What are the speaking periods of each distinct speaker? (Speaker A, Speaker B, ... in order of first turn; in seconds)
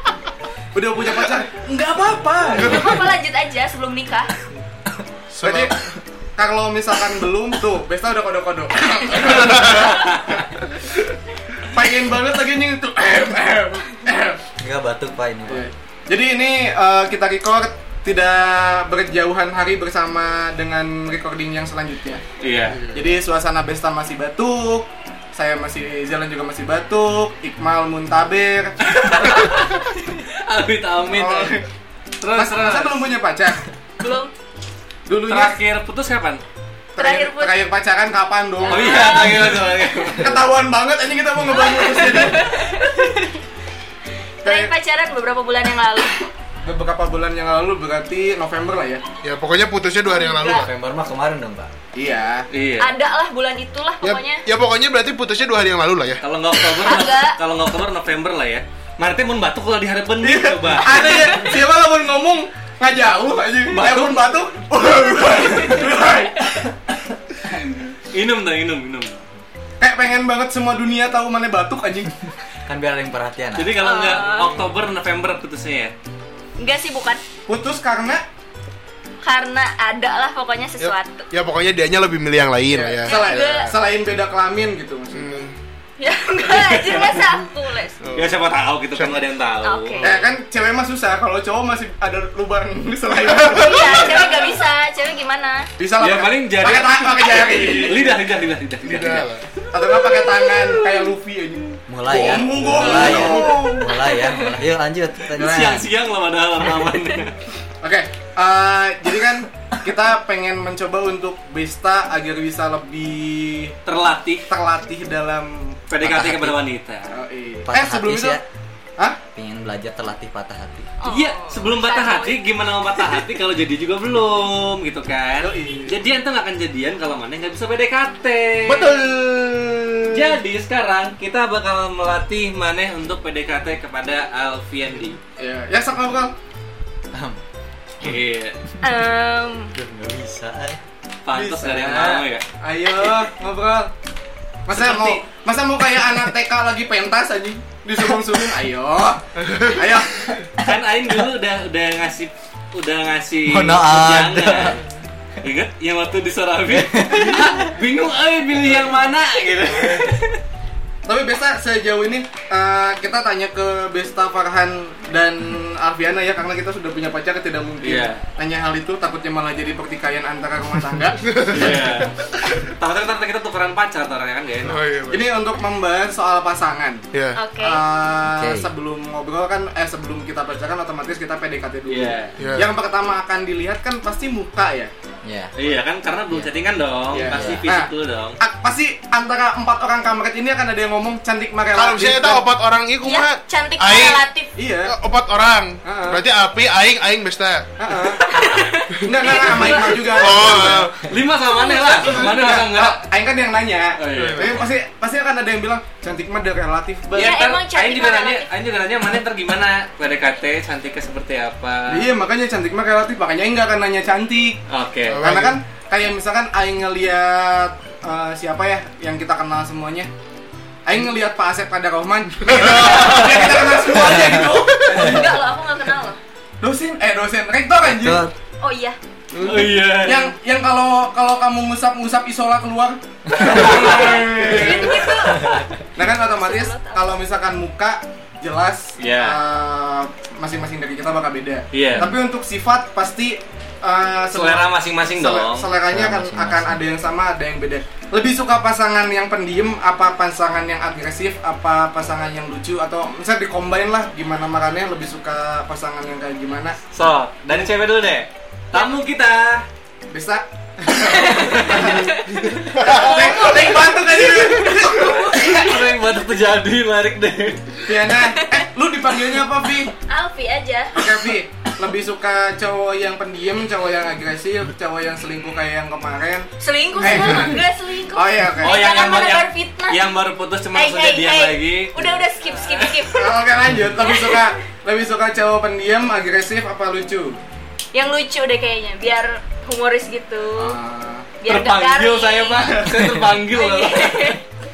Speaker A: 0.7-2.9, 5.4-5.7, 6.4-10.7, 11.6-14.4, 15.5-22.2, 22.9-28.8, 31.1-31.6, 32.3-33.6, 35.1-35.6, 37.0-39.4, 40.2-42.6, 44.4-44.7, 46.6-49.0, 51.9-52.5, 60.2-66.7, 69.8-72.1, 77.5-78.2, 82.7-85.5, 90.0-94.5, 95.8-98.1, 99.7-103.8, 107.8-113.8, 114.5-115.8, 117.1-118.4, 125.4-126.0, 128.9-129.5, 135.4-136.3, 141.3-143.9, 144.7-150.4, 161.1-171.3, 175.1-177.0, 177.6-184.9, 187.1-192.4, 194.6-194.9, 195.8-196.2, 197.8-198.2, 199.0-200.9, 202.0-207.4, 211.9-214.6, 215.2-220.1, 220.8-225.3, 226.6-228.2, 230.0-235.3, 235.9-256.8, 260.1-262.1, 262.7-265.4, 267.8-269.9, 270.9-278.9, 283.1-287.4, 290.6-291.3
Speaker B: 2.5-4.3, 34.0-34.3, 37.0-37.5, 38.6-39.6, 41.5-43.4, 44.4-46.3, 50.0-50.6, 52.8-54.4, 56.7-57.4, 73.8-74.6, 76.6-77.2, 79.2-81.3, 83.0-83.7, 86.0-88.0, 89.6-90.1, 93.5-95.7, 103.4-104.5, 121.0-122.4, 138.8-139.7, 177.3-177.8, 193.0-194.5, 198.2-200.8, 201.6-202.1, 207.1-208.5, 224.8-226.2, 228.6-229.0, 233.7-237.1, 261.0-265.6, 270.1-271.0, 276.6-280.0, 280.7-283.3, 284.0-284.5, 287.9-290.8, 291.4-292.8, 293.5-294.4
Speaker C: 2.5-3.1, 5.3-5.7, 9.6-9.8, 49.2-50.7, 54.0-56.2, 80.8-83.6, 85.1-85.5, 88.0-88.4, 88.9-89.2, 98.8-99.5, 102.6-103.8, 128.7-129.7, 149.4-149.8, 171.2-172.1, 174.6-175.3, 177.1-177.4, 182.4-182.7, 191.7-194.2, 194.8-197.7, 199.3-201.0, 204.1-204.7, 215.1-215.6, 222.4-225.1, 229.3-229.7, 262.6-263.6
Speaker D: 10.0-10.3, 22.4-22.8, 28.8-31.6, 32.2-33.0, 35.3-36.4, 38.7-40.4, 52.5-52.9, 56.2-61.1, 63.7-64.2, 68.1-69.2, 73.5-75.9, 86.5-87.2, 88.1-90.1, 96.0-99.3, 105.3-107.3, 113.8-114.5, 115.9-117.1, 121.0-128.9, 130.1-135.2, 138.0-138.6, 141.2-142.4, 144.7-145.2, 150.6-154.8, 155.4-160.3, 167.8-168.2, 171.5-172.1, 172.7-174.8, 181.9-182.3, 185.6-188.4, 201.0-203.0, 204.0-204.5, 207.1-212.1, 214.7-215.2, 229.4-230.3, 233.4-234.8, 239.0-239.4, 241.7-242.1, 244.3-245.7, 256.9-259.6, 261.4-261.9, 265.2-267.7, 278.6-283.1, 291.4-294.4
Speaker E: 14.6-15.7, 50.4-51.7, 72.7-74.0, 101.9-105.9, 116.0-116.6, 117.7-118.4, 119.3-120.9, 137.1-137.4, 139.7-140.8, 153.4-154.8, 156.8-157.6, 178.2-178.7, 185.2-185.5, 187.2-187.7, 227.8-228.3, 245.9-246.8